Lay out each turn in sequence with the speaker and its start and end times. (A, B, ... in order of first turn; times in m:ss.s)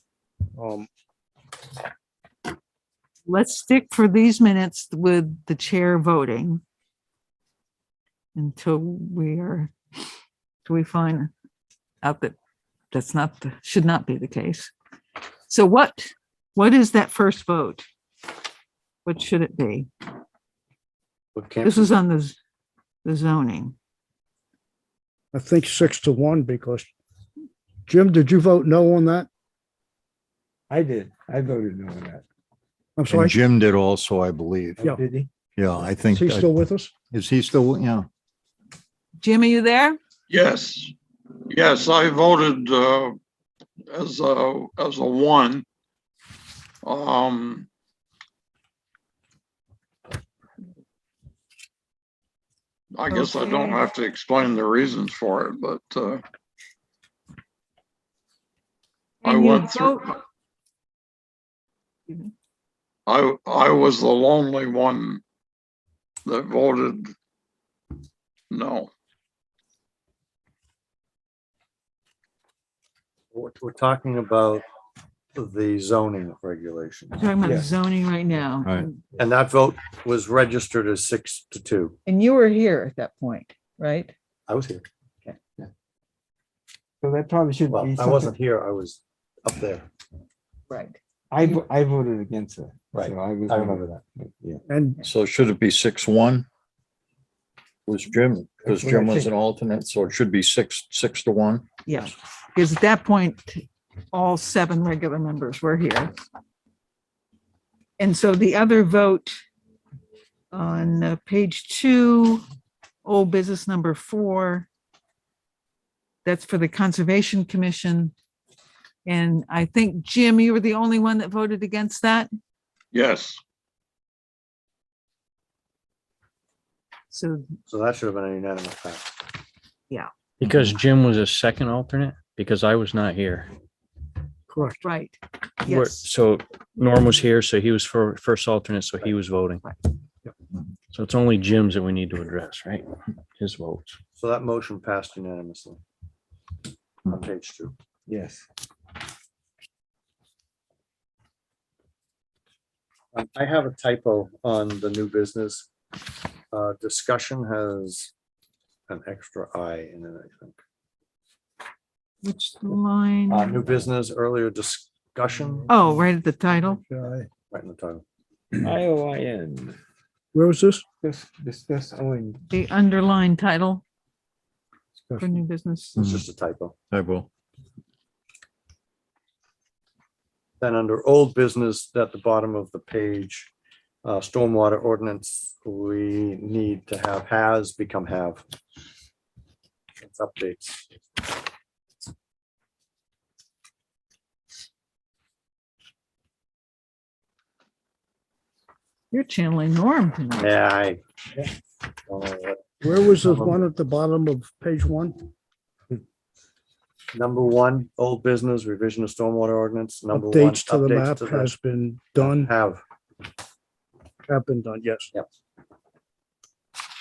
0:00.6-0:00.9 A
0:03.3-0:06.6 B
0:08.4-0:09.7 B
0:10.6-0:11.3 B
0:12.0-0:12.4 B
0:12.9-0:14.7 B
0:15.5-0:17.8 B
0:19.0-0:19.9 B
0:21.4-0:21.9 C
0:21.6-0:22.4 B
0:23.0-0:23.8 B
0:25.3-0:26.9 A
0:27.9-0:29.3 A
0:30.7-0:32.2 D
0:33.0-0:33.4 A
0:33.1-0:34.9 E
0:34.8-0:35.3 D
0:35.6-0:36.5 E
0:36.1-0:36.9 A
0:37.1-0:38.1 E
0:39.2-0:40.0 B
0:40.3-0:40.9 F
0:41.5-0:43.2 F
0:43.9-0:45.6 F
0:46.8-0:47.7 F
0:52.9-0:56.2 F
0:53.1-0:53.9 B
0:59.2-1:00.0 F
0:59.2-1:00.1 B
1:02.1-1:02.3 B
1:03.1-1:05.2 F
1:06.2-1:07.1 F
1:08.5-1:08.9 F
1:13.3-1:14.6 C
1:15.4-1:17.3 C
1:17.1-1:19.0 B
1:17.4-1:17.7 D
1:19.2-1:22.0 C
1:22.1-1:24.1 B
1:24.5-1:24.8 C
1:27.0-1:28.3 D
1:27.7-1:29.9 C
1:30.7-1:31.6 B
1:31.3-1:34.6 D
1:32.9-1:34.0 C
1:34.7-1:35.0 A
1:35.0-1:36.5 E
1:37.9-1:41.6 E
1:38.6-1:39.3 D
1:41.9-1:46.1 B
1:48.0-1:49.4 B
1:50.5-1:52.4 B
1:53.0-1:54.7 B
1:56.2-1:58.1 B
1:59.1-2:02.3 B
2:02.9-2:03.4 F
2:07.1-2:07.5 B
2:07.7-2:09.3 C
2:10.4-2:13.5 G
2:14.5-2:14.8 A
2:14.8-2:16.1 B
2:15.6-2:19.6 G
2:20.9-2:24.0 G
2:24.2-2:25.8 C
2:27.1-2:27.8 C
2:28.1-2:28.5 D
2:33.1-2:35.7 C
2:36.5-2:38.1 C
2:38.9-2:40.6 C
2:42.2-2:43.6 B
2:43.3-2:45.7 C
2:45.7-2:46.8 B
2:46.8-2:47.2 A
2:47.5-2:48.0 C
2:48.5-2:49.8 D
2:50.3-2:50.8 A
2:51.0-2:52.4 D
2:52.5-2:53.8 B
2:55.2-2:56.0 B
2:56.0-2:56.2 E
2:56.0-2:56.8 C
2:56.9-2:57.3 E
3:00.6-3:03.5 C
3:04.0-3:08.4 C
3:10.0-3:11.4 C
3:19.1-3:20.6 B
3:20.4-3:21.0 C
3:22.1-3:23.7 C
3:22.8-3:25.3 A
3:27.1-3:31.6 C
3:30.1-3:32.5 A
3:32.2-3:32.8 C
3:34.3-3:35.1 A